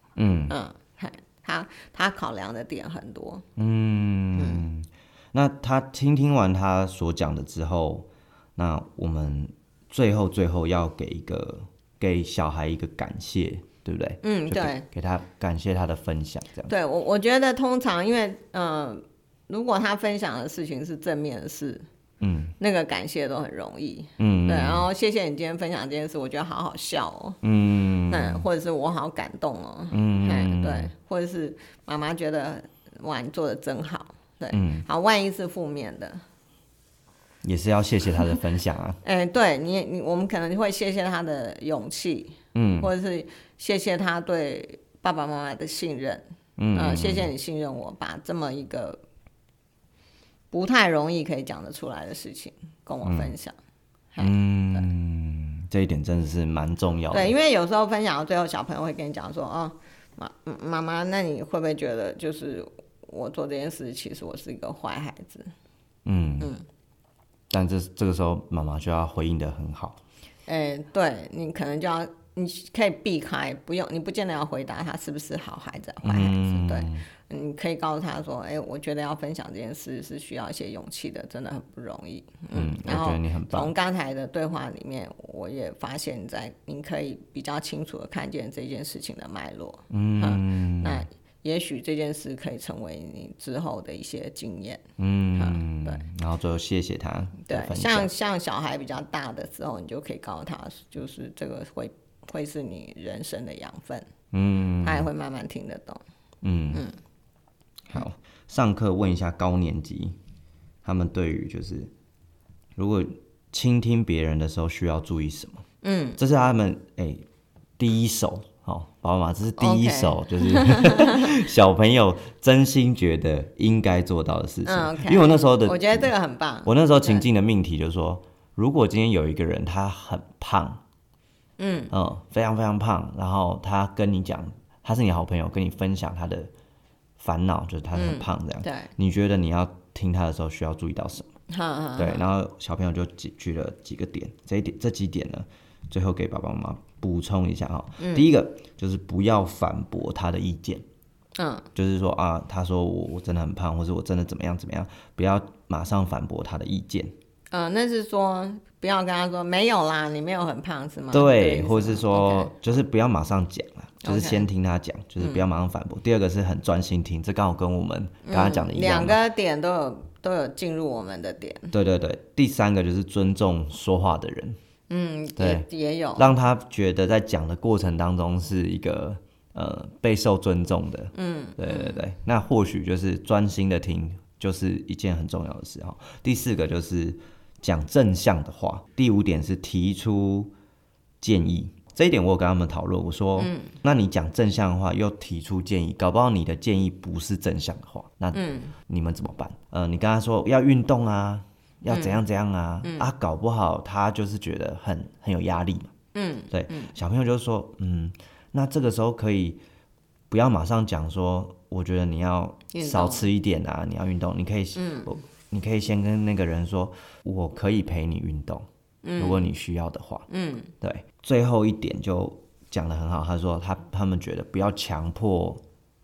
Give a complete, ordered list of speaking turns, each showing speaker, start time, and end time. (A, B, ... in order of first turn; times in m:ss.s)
0:00.2-0:00.6 A
0:00.5-0:03.5 B
0:03.6-0:16.7 A
0:04.4-0:04.6 B
0:14.2-0:14.9 B
0:16.7-0:21.8 B
0:22.2-0:22.6 A
0:22.6-0:27.4 B
0:24.2-0:24.9 A
0:27.4-0:28.4 A
0:28.1-0:36.2 B
0:29.9-0:30.9 A
0:34.5-0:34.8 A
0:37.4-0:39.0 A
0:39.0-0:49.0 B
0:42.5-0:42.9 A
0:46.6-0:47.3 A
0:50.5-0:53.5 B
0:53.0-0:53.3 A
0:54.1-0:54.9 B
0:54.2-0:57.3 A
0:57.1-1:05.5 B
1:06.0-1:06.5 A
1:07.5-1:10.0 A
1:10.5-1:34.8 B
1:16.0-1:17.1 A
1:22.5-1:23.7 A
1:29.9-1:31.0 A
1:35.0-1:38.1 A
1:35.4-1:36.0 B
1:37.4-1:44.1 B
1:44.3-1:45.1 A
1:44.8-1:46.0 B
1:46.4-1:46.8 A
1:47.9-1:50.2 A
1:50.8-1:51.9 A
1:52.8-1:55.6 A
1:55.8-1:56.2 B
1:56.2-1:57.2 A
1:57.8-2:06.1 A
1:59.6-2:01.4 B
2:04.7-2:07.3 B
2:06.6-2:10.8 A
2:11.6-2:11.9 B
2:11.9-2:16.5 A
2:17.2-2:21.3 A
2:18.0-2:18.9 B
2:21.5-2:22.3 B
2:22.0-2:30.8 A
2:28.0-2:28.3 B
2:31.4-2:31.7 B
2:31.8-2:37.1 A
2:37.5-2:42.6 B
2:41.1-2:49.2 A
2:44.0-2:44.4 B
2:48.2-2:51.7 B
2:51.7-2:54.6 A
2:54.9-2:56.3 B
2:55.4-3:10.5 A
3:01.1-3:02.0 B
3:11.2-3:25.9 A
3:13.4-3:13.8 B
3:18.3-3:18.8 B
3:21.9-3:22.2 B
3:22.8-3:23.1 B
3:26.1-3:26.9 B
3:26.5-3:29.6 A
3:30.3-3:38.7 A
3:32.7-3:33.3 B
3:34.8-3:35.1 B
3:39.0-3:39.4 B
3:39.2-3:40.3 A
3:40.3-3:40.7 B
3:40.8-3:45.6 A